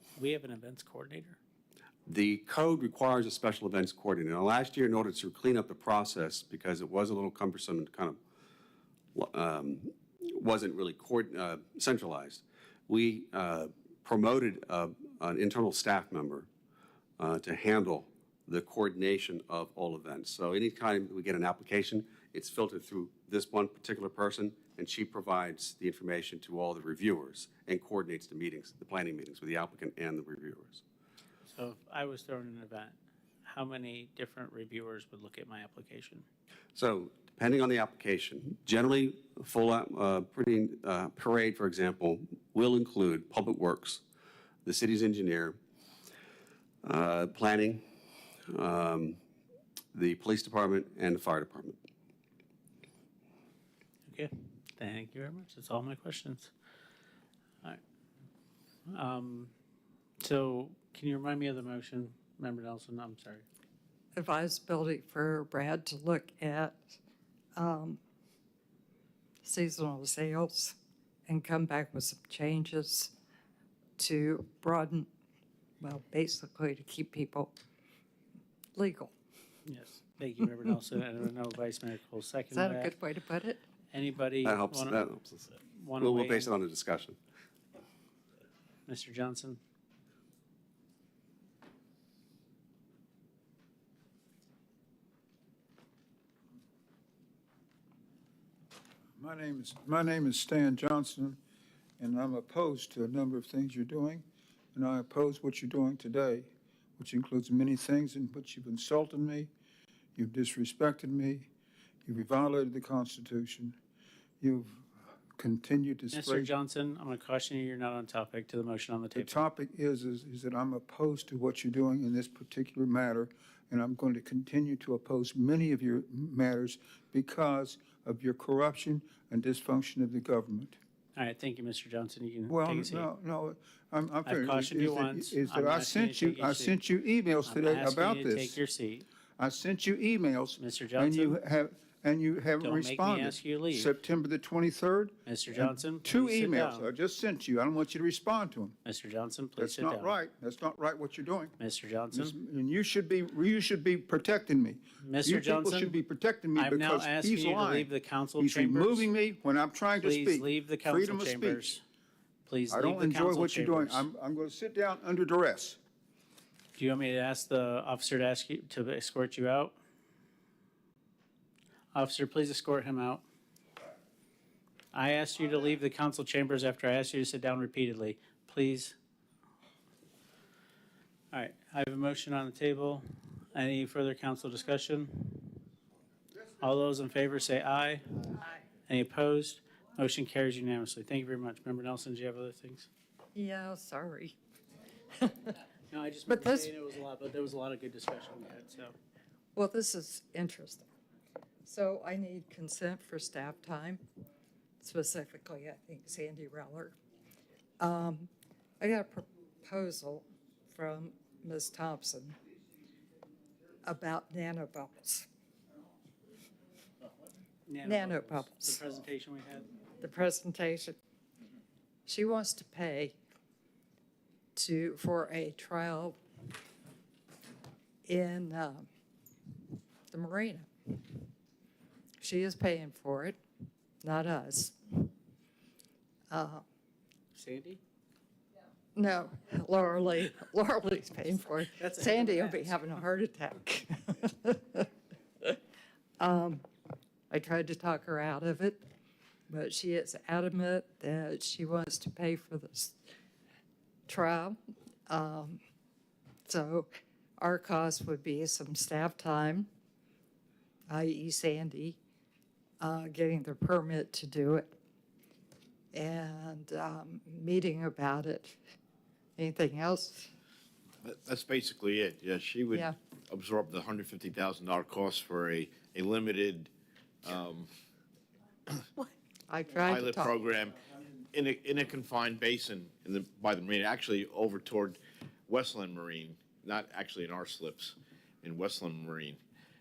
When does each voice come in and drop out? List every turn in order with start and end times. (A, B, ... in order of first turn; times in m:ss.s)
0:00.2-0:01.4 A
0:02.1-0:08.2 B
0:09.2-0:16.5 B
0:17.2-0:30.8 B
0:31.5-0:36.2 A
0:36.8-0:44.0 B
0:44.6-0:45.6 B
0:46.8-0:47.8 B
0:48.5-0:49.2 B
0:49.9-0:51.8 B
0:54.1-0:56.5 A
0:58.9-0:59.5 A
1:00.2-1:03.4 A
1:04.2-1:07.0 C
1:07.6-1:08.0 C
1:09.4-1:10.8 C
1:11.3-1:13.1 C
1:14.0-1:15.1 C
1:15.8-1:17.5 C
1:18.8-1:19.1 C
1:19.7-1:23.0 A
1:22.5-1:23.6 C
1:23.9-1:26.5 A
1:24.4-1:25.5 B
1:26.0-1:27.2 B
1:28.9-1:29.6 A
1:39.2-1:41.4 D
1:42.0-1:49.5 D
1:50.2-1:51.5 D
1:52.0-1:53.8 D
1:54.4-1:56.5 D
1:56.1-1:59.3 A
1:59.2-2:10.8 D
2:11.2-2:13.1 A
2:12.5-2:18.6 D
2:14.3-2:16.8 A
2:17.4-2:19.1 A
2:19.4-2:28.8 D
2:20.6-2:21.4 A
2:22.6-2:23.9 A
2:25.3-2:26.9 A
2:28.8-2:30.2 A
2:29.6-2:31.6 D
2:31.6-2:32.4 A
2:32.1-2:41.7 D
2:35.0-2:36.0 A
2:36.6-2:39.1 A
2:40.0-2:41.8 A
2:42.5-2:44.1 A
2:42.7-2:45.8 D
2:46.8-2:49.8 A
2:51.9-2:53.2 A
2:54.9-2:59.0 A
3:01.3-3:05.6 A
3:06.6-3:08.2 A
3:08.9-3:12.9 A
3:13.4-3:14.4 C
3:15.2-3:15.6 C
3:15.9-3:18.9 A
3:16.3-3:16.7 C
3:19.6-3:20.9 C
3:21.6-3:24.0 C
3:24.8-3:27.0 C
3:27.8-3:28.3 C
3:28.8-3:32.4 C
3:33.8-3:35.3 C
3:37.7-3:39.7 A
3:37.8-3:38.8 C
3:40.0-3:41.0 C
3:42.1-3:43.2 C
3:44.6-3:46.2 C
3:48.0-3:48.9 C
3:50.1-3:51.2 C
3:52.2-3:53.4 C
3:54.0-3:55.1 C
3:56.3-3:56.6 C
3:57.4-3:57.8 A
3:59.0-4:04.9 C
4:01.8-4:02.8 A
4:06.2-4:06.6 C
4:07.3-4:08.8 C
4:09.5-4:13.0 C
4:14.1-4:15.6 C
4:16.5-4:19.7 C
4:20.9-4:22.0 C
4:22.8-4:24.7 C
4:25.9-4:28.6 C
4:29.4-4:30.3 C
4:31.0-4:36.7 E
4:37.2-4:37.7 E
4:39.5-4:40.3 C
4:39.8-4:49.4 E